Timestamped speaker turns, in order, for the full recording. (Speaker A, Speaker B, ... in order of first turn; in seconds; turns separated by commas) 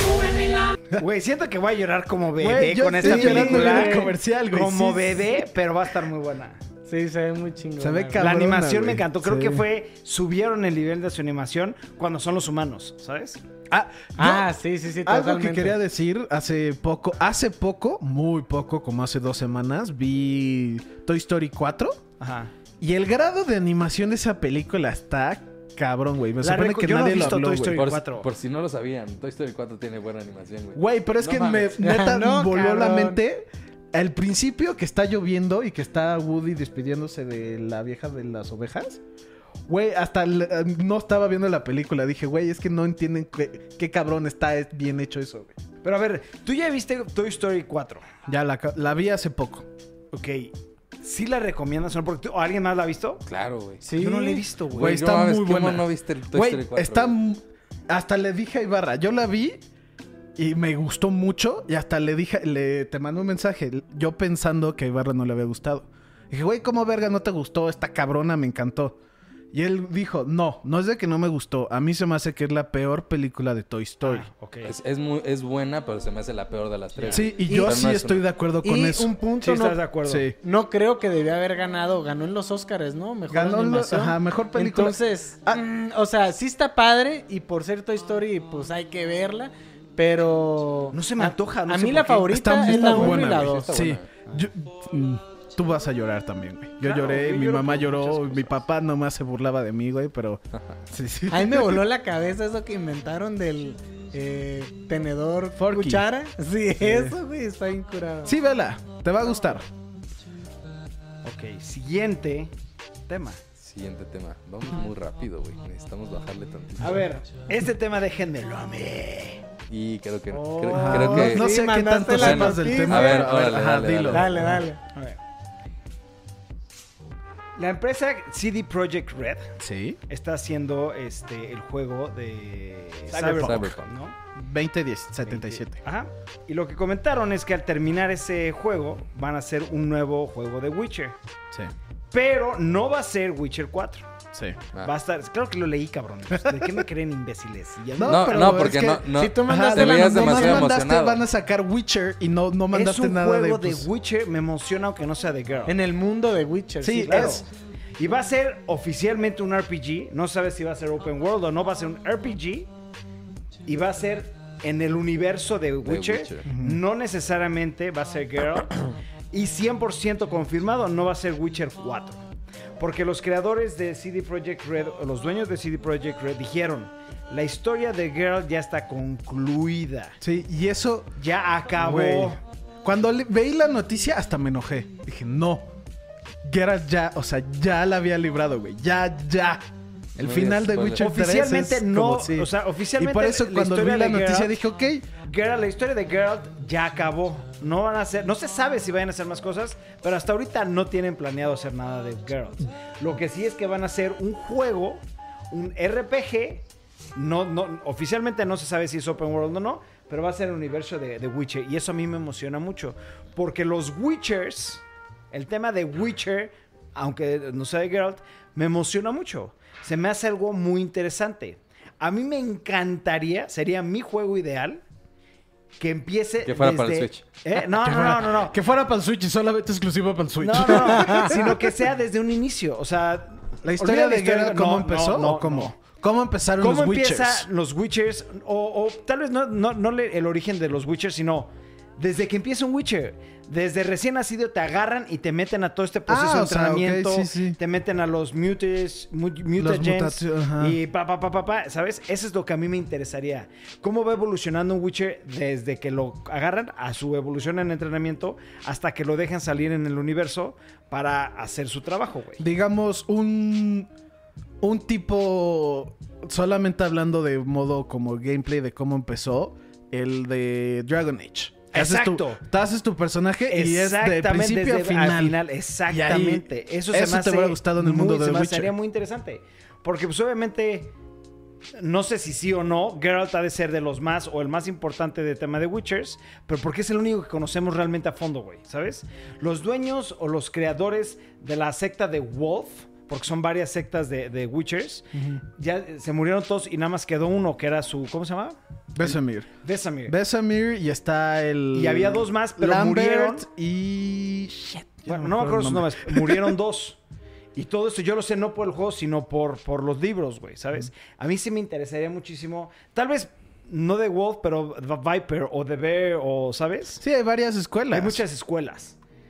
Speaker A: 1.0-6.6, Speaker B: 2.4-5.5, Speaker C: 3.0-4.1, Speaker C: 6.9-8.4, Speaker B: 7.8-9.7, Speaker A: 8.2-13.4, Speaker B: 13.7-22.0, Speaker C: 14.2-15.8, Speaker A: 22.2-22.5, Speaker B: 22.8-27.9, Speaker A: 26.4-28.3, Speaker D: 27.2-31.7, Speaker B: 30.8-39.0, Speaker C: 31.8-33.2, Speaker B: 39.7-45.5, Speaker A: 45.8-48.1, Speaker B: 48.3-49.7, Speaker A: 50.1-53.2, Speaker D: 53.3-53.8, Speaker C: 53.8-54.4, Speaker A: 54.0-55.0, Speaker B: 54.7-59.6, Speaker D: 54.7-57.2, Speaker B: 60.4-69.0, Speaker B: 69.5-74.3, Speaker A: 74.0-74.7, Speaker D: 74.7-78.3, Speaker A: 77.0-77.2, Speaker B: 77.1-80.4, Speaker C: 77.5-77.8, Speaker C: 78.6-79.5, Speaker A: 79.4-80.3, Speaker C: 80.4-93.8, Speaker B: 83.3-85.6, Speaker A: 90.9-92.5, Speaker B: 92.3-101.9, Speaker D: 92.7-94.1, Speaker A: 96.8-98.6, Speaker C: 101.3-108.4, Speaker B: 105.6-106.1, Speaker B: 106.8-107.2, Speaker B: 108.2-109.7, Speaker A: 111.2-112.5, Speaker A: 113.1-113.4, Speaker D: 113.6-117.1, Speaker A: 116.8-119.4, Speaker D: 119.7-121.5, Speaker C: 120.3-123.2, Speaker B: 120.7-124.6, Speaker D: 122.0-124.6, Speaker C: 124.1-124.8, Speaker A: 124.9-125.2, Speaker A: 127.6-129.5, Speaker B: 129.6-130.0, Speaker A: 130.1-134.2, Speaker B: 133.1-133.8, Speaker D: 133.2-133.9, Speaker B: 134.3-135.8, Speaker A: 135.2-141.2, Speaker A: 142.1-144.1, Speaker B: 144.3-144.6, Speaker A: 144.8-148.8, Speaker B: 148.0-153.9, Speaker D: 148.0-151.2, Speaker C: 149.2-150.7, Speaker A: 152.7-155.8, Speaker C: 155.7-157.4, Speaker B: 156.8-157.4, Speaker A: 156.9-157.5, Speaker A: 158.0-162.7, Speaker A: 163.7-168.8, Speaker D: 165.8-166.4, Speaker B: 166.5-166.8, Speaker A: 169.3-172.2, Speaker A: 172.8-180.2, Speaker B: 180.2-181.1, Speaker A: 181.2-182.4, Speaker B: 181.8-185.7, Speaker B: 186.4-189.7, Speaker B: 190.2-195.1, Speaker D: 190.2-191.0, Speaker A: 191.0-194.6, Speaker A: 195.2-206.6, Speaker A: 207.2-224.8, Speaker A: 225.8-228.6, Speaker D: 226.4-227.2, Speaker B: 227.8-231.7, Speaker A: 230.4-235.8, Speaker B: 233.6-237.5, Speaker A: 236.6-262.4, Speaker B: 246.1-247.6, Speaker B: 249.6-250.8, Speaker B: 262.4-263.9, Speaker B: 264.6-278.7, Speaker A: 271.7-272.4, Speaker A: 273.5-280.9, Speaker A: 281.8-300.1, Speaker B: 295.1-295.4, Speaker B: 298.9-299.5, Speaker B: 300.1-306.6, Speaker A: 301.7-303.5, Speaker A: 305.1-307.0, Speaker A: 307.6-317.0, Speaker B: 317.0-318.2, Speaker A: 317.9-319.0